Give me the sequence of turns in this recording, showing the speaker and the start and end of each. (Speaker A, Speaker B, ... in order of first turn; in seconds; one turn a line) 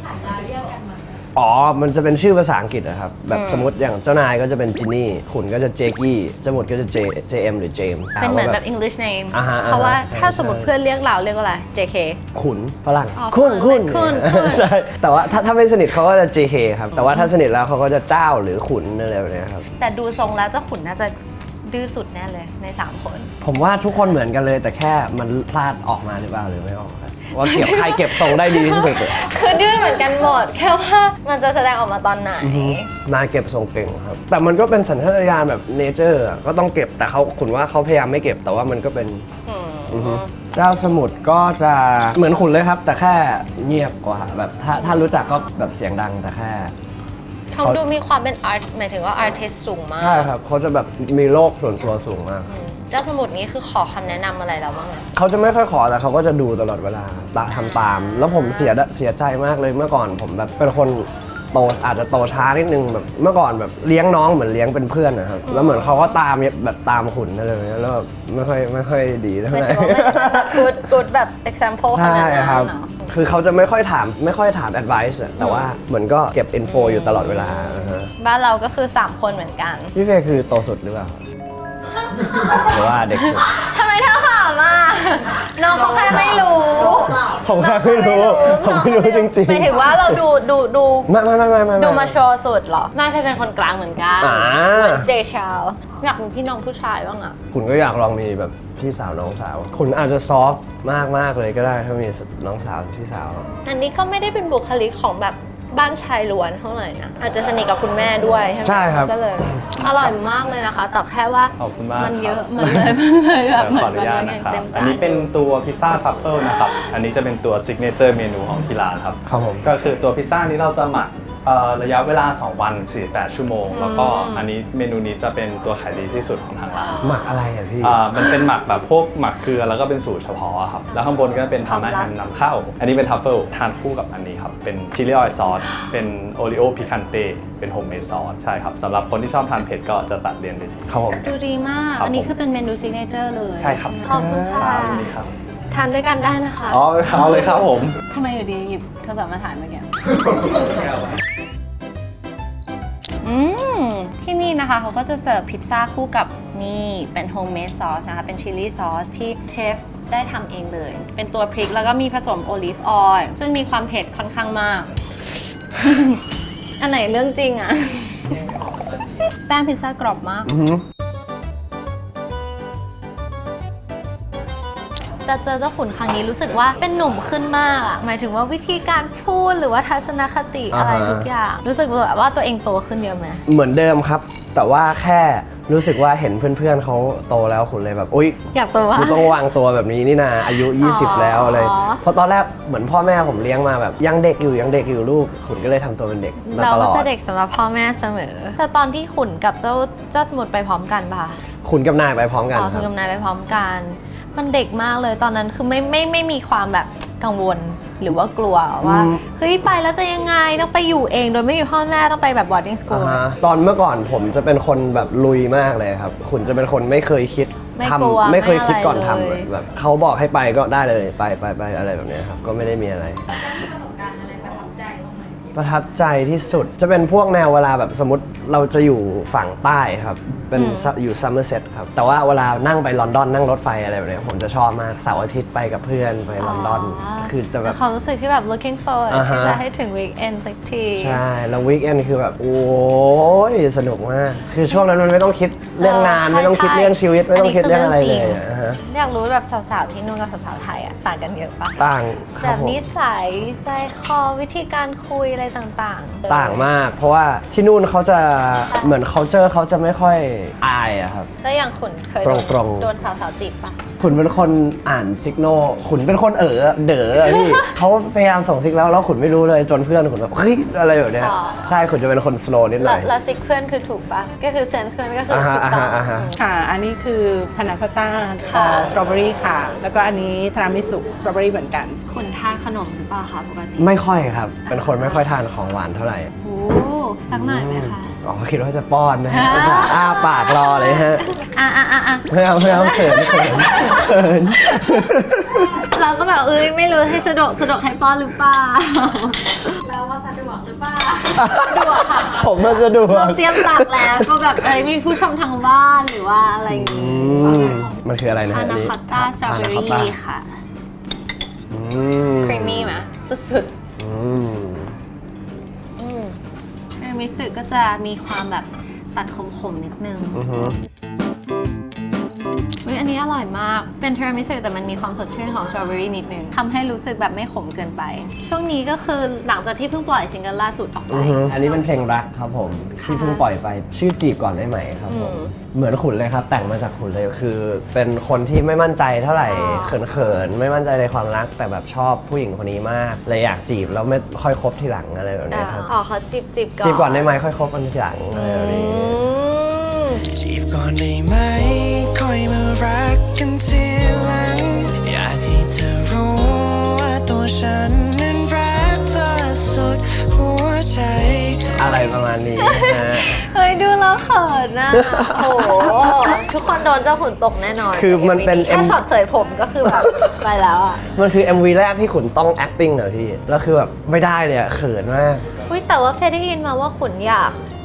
Speaker A: 1.3-8.6
Speaker B: 3.3-3.7
Speaker B: 8.2-12.2
Speaker A: 9.3-10.7
Speaker A: 12.3-19.6
Speaker B: 13.2-14.7
Speaker B: 19.8-23.3
Speaker A: 23.4-29.4
Speaker B: 27.4-32.9
Speaker A: 32.4-39.2
Speaker B: 39.5-40.3
Speaker A: 39.9-46.7
Speaker B: 47.5-50.3
Speaker A: 50.0-52.5
Speaker B: 52.5-55.1
Speaker A: 55.1-70.8
Speaker B: 57.5-58.8
Speaker B: 65.5-66.2
Speaker B: 69.5-73.0
Speaker A: 71.9-78.1
Speaker B: 75.4-75.7
Speaker B: 76.6-79.9
Speaker A: 79.9-81.2
Speaker B: 82.1-91.1
Speaker A: 82.5-83.5
Speaker A: 87.3-90.2
Speaker A: 91.1-92.2
Speaker B: 91.8-97.4
Speaker A: 94.2-95.1
Speaker A: 97.5-103.5
Speaker B: 103.6-115.3
Speaker A: 108.6-109.9
Speaker C: 111.6-113.0
Speaker C: 113.5-127.0
Speaker A: 119.2-119.7
Speaker B: 123.7-124.5
Speaker A: 127.0-128.0
Speaker C: 127.8-140.8
Speaker B: 131.6-132.1
Speaker A: 140.9-141.3
Speaker B: 141.2-145.1
Speaker C: 142.0-142.3
Speaker C: 143.6-145.3
Speaker B: 145.7-146.8
Speaker C: 146.7-148.0
Speaker B: 148.1-149.9
Speaker B: 153.2-164.9
Speaker B: 165.8-166.2
Speaker B: 166.8-168.4
Speaker B: 169.1-170.5
Speaker A: 170.5-170.8
Speaker B: 175.2-183.4
Speaker A: 180.7-181.3
Speaker A: 183.5-188.4
Speaker B: 188.5-189.4
Speaker A: 188.9-197.1
Speaker B: 190.8-192.0
Speaker B: 196.4-201.4
Speaker A: 201.6-202.9
Speaker B: 202.5-213.2
Speaker A: 208.8-209.2
Speaker A: 212.9-223.7
Speaker B: 217.7-219.5
Speaker A: 225.5-237.8
Speaker B: 230.5-230.9
Speaker B: 236.4-241.2
Speaker A: 239.1-239.6
Speaker A: 240.9-248.8
Speaker B: 245.8-251.8
Speaker A: 251.8-252.8
Speaker B: 252.4-256.6
Speaker A: 256.3-261.3
Speaker B: 261.4-263.8
Speaker A: 262.2-262.9
Speaker A: 264.0-273.1
Speaker B: 267.2-267.7
Speaker B: 271.2-271.8
Speaker B: 272.8-276.3
Speaker A: 275.3-276.3
Speaker D: 276.4-282.0
Speaker B: 278.4-279.0
Speaker B: 282.1-283.9
Speaker A: 283.8-286.3
Speaker B: 284.7-285.3
Speaker B: 286.4-288.1
Speaker A: 287.3-291.2
Speaker B: 289.3-310.5
Speaker A: 292.3-295.8
Speaker A: 301.3-304.4
Speaker A: 306.7-310.1
Speaker A: 311.7-313.0
Speaker B: 312.4-313.7
Speaker A: 314.0-314.9
Speaker B: 316.0-316.4
Speaker B: 316.9-320.4
Speaker A: 320.3-320.8
Speaker B: 322.8-331.6
Speaker A: 331.1-345.9
Speaker B: 333.0-333.4
Speaker B: 335.1-335.5
Speaker B: 339.4-340.0
Speaker B: 345.5-347.3
Speaker A: 346.8-349.2
Speaker B: 348.3-350.2
Speaker E: 350.3-361.7
Speaker A: 361.7-363.4
Speaker B: 362.6-371.1
Speaker A: 364.9-366.3
Speaker A: 367.9-369.0
Speaker A: 371.1-375.4
Speaker B: 375.7-377.6